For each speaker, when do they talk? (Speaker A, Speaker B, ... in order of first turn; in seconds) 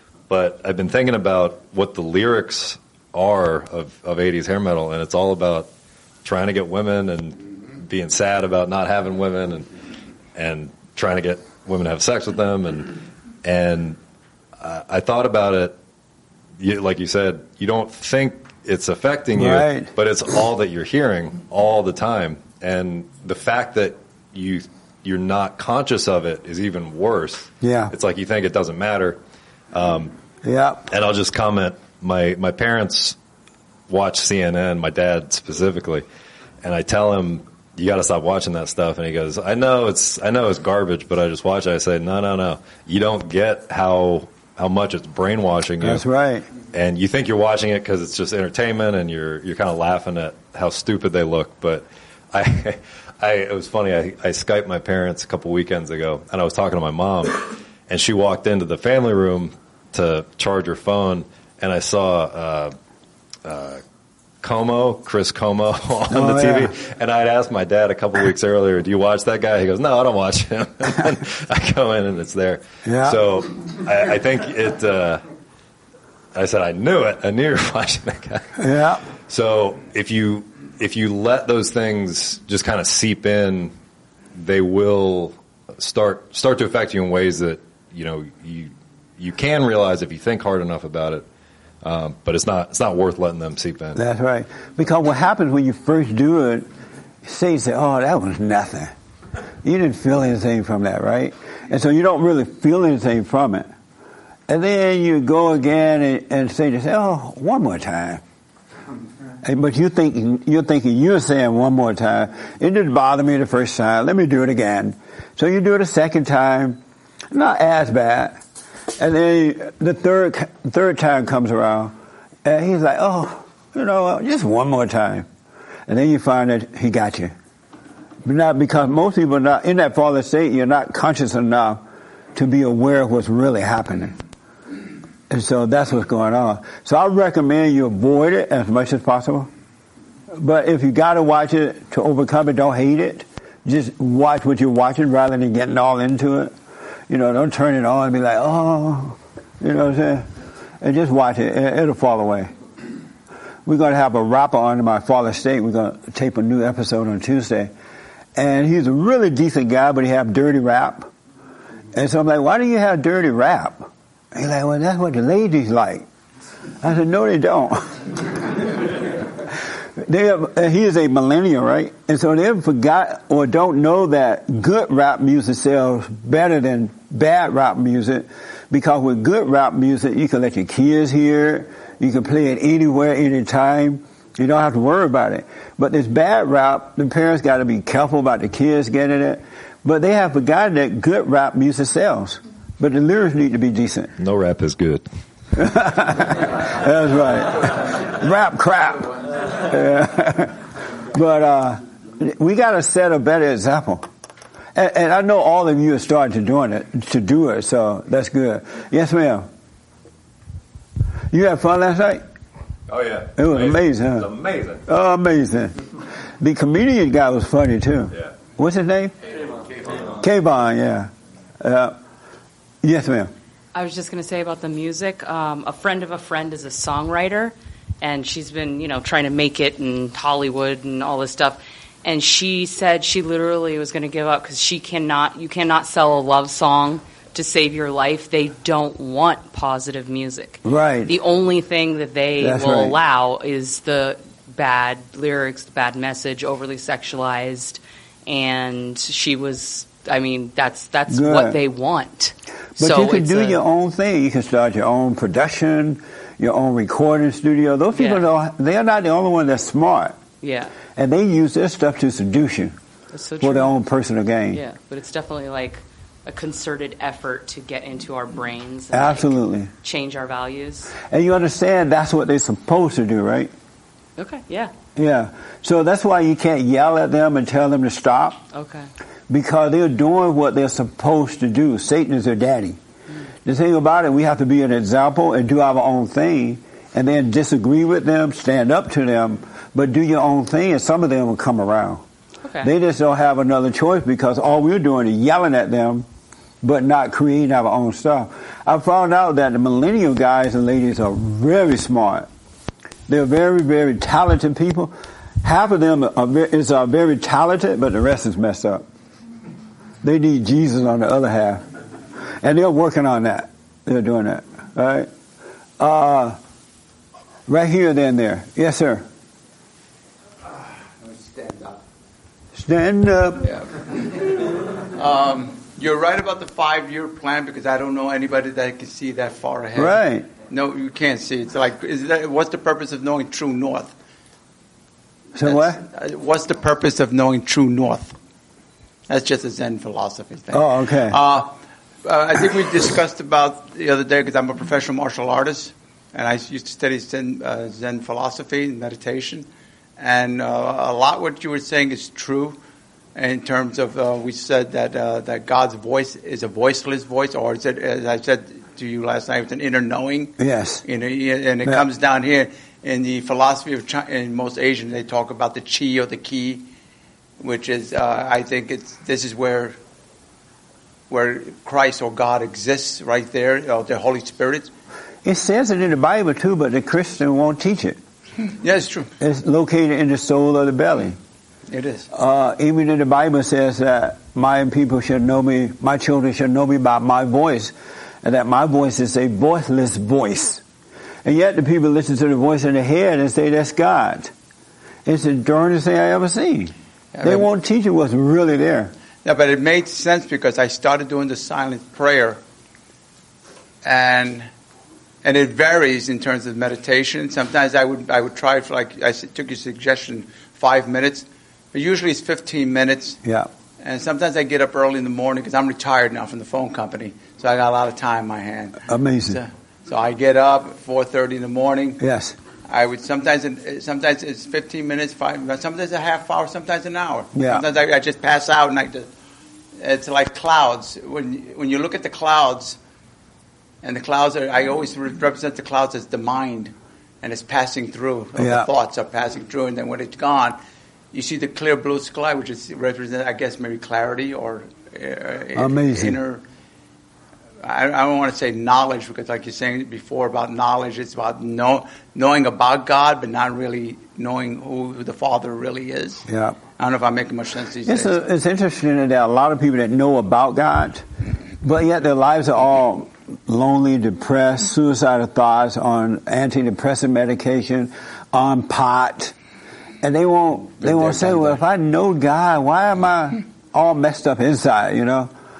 Speaker A: 0.3-5.7, 6.2-9.7, 10.3-14.0, 14.6-15.7, 16.6-29.2, 29.7-30.1, 30.9-33.1, 33.9-36.0, 36.6-46.0, 46.7-62.7, 63.4-63.8, 64.4-75.2, 76.3-78.5, 79.3-83.7, 84.3-91.2, 91.8-94.0, 194.2-195.0, 212.9-214.8
Speaker B: 19.3-19.9, 27.6-27.9, 30.4-30.9, 45.8-46.5, 66.1-66.7, 72.8-73.2, 78.6-79.0, 94.0-96.7, 97.2-98.9, 99.6-103.7, 104.5-108.2, 109.4-116.8, 117.3-118.4, 119.0-125.3, 125.9-127.3, 128.2-131.8, 132.3-134.1, 135.3-139.5, 140.3-146.5, 147.1-150.3, 150.8-152.5, 153.6-157.7, 158.3-161.1, 161.9-166.1, 166.8-168.9, 170.0-194.1, 195.5-200.6, 201.1-204.1, 204.7-209.5, 211.3-212.2, 213.4-214.3, 214.8-215.8, 216.4-219.1, 220.0-221.1, 221.6-221.9, 222.8-223.3, 240.6-241.1, 242.4-243.0, 251.1-251.6, 252.8-260.1, 260.9-262.7, 263.4-264.6, 268.9-269.7, 271.0-273.5, 274.9-278.4, 279.3-282.8, 283.4-292.0, 292.6-296.1, 296.6-302.3, 303.1-308.8, 310.0-311.6, 312.4-315.1, 315.8-316.4, 317.5-319.0, 322.5-323.5, 329.7-330.3, 335.3-335.8, 340.5-341.2, 360.4-360.8, 375.2-378.0, 379.2-381.2, 382.1-390.6, 391.2-394.3, 395.1-398.9, 413.2-413.5, 418.9-419.4, 422.0-422.4, 427.3-427.6, 438.4-438.7, 445.5-446.2, 456.3-456.6, 457.8-461.0, 461.6-469.3, 470.0-475.3
Speaker C: 223.7-253.6, 257.9-258.2, 260.4-260.7, 263.1-263.7, 264.5-270.9, 274.2-274.7, 278.5-278.9, 292.4-292.7
Speaker D: 321.0-321.8, 323.4-333.9, 335.4-338.1, 339.1-349.4, 350.0-352.6, 353.1-360.3, 360.8-366.7, 367.4-369.8, 371.1-374.7, 378.5-379.1, 381.7-382.1, 397.1-397.5, 399.2-402.4, 403.8-404.5, 405.2-413.2, 413.8-422.0, 422.7-429.1, 429.8-432.8, 433.8-440.6, 441.1-446.4, 447.6-456.2, 456.8-458.2